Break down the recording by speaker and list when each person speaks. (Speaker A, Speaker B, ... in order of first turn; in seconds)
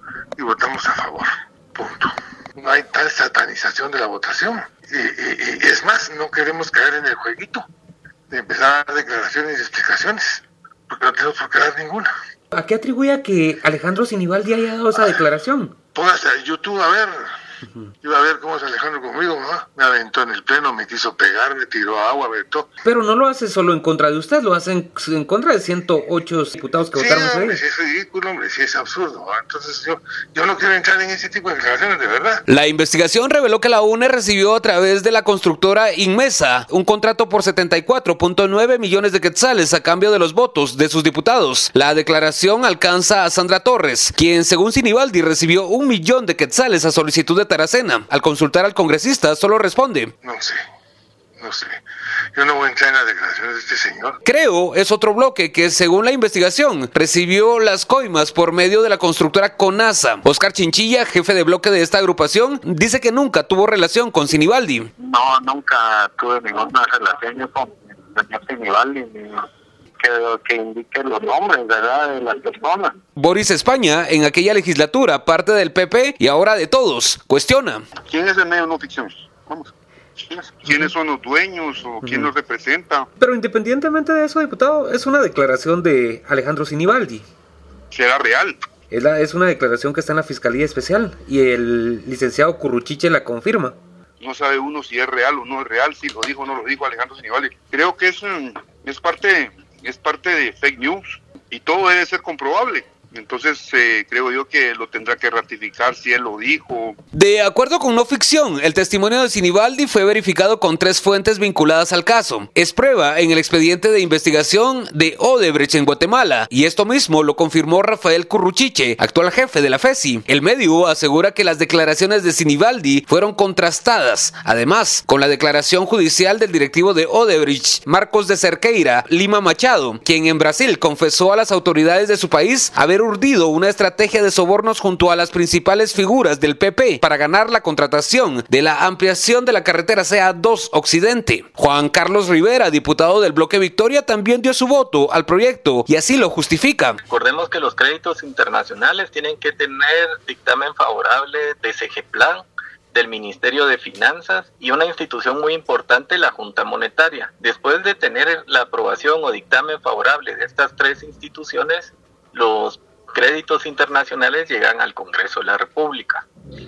Speaker A: 0.3-7.6, 8.3-12.1, 14.9-15.2, 15.9-17.3, 18.0-22.7, 26.9-32.4, 50.2-50.5, 51.4-51.8, 52.3-54.2
Speaker B: 12.5-15.7, 22.8-27.6, 32.5-50.1, 54.2-64.9, 73.2-77.8, 82.0-82.3, 83.2-87.2, 88.9-93.7, 107.1-147.0
Speaker C: 65.0-69.4, 70.0-73.0
Speaker D: 78.0-83.1, 87.9-88.6, 94.2-107.0
Speaker E: 147.1-166.2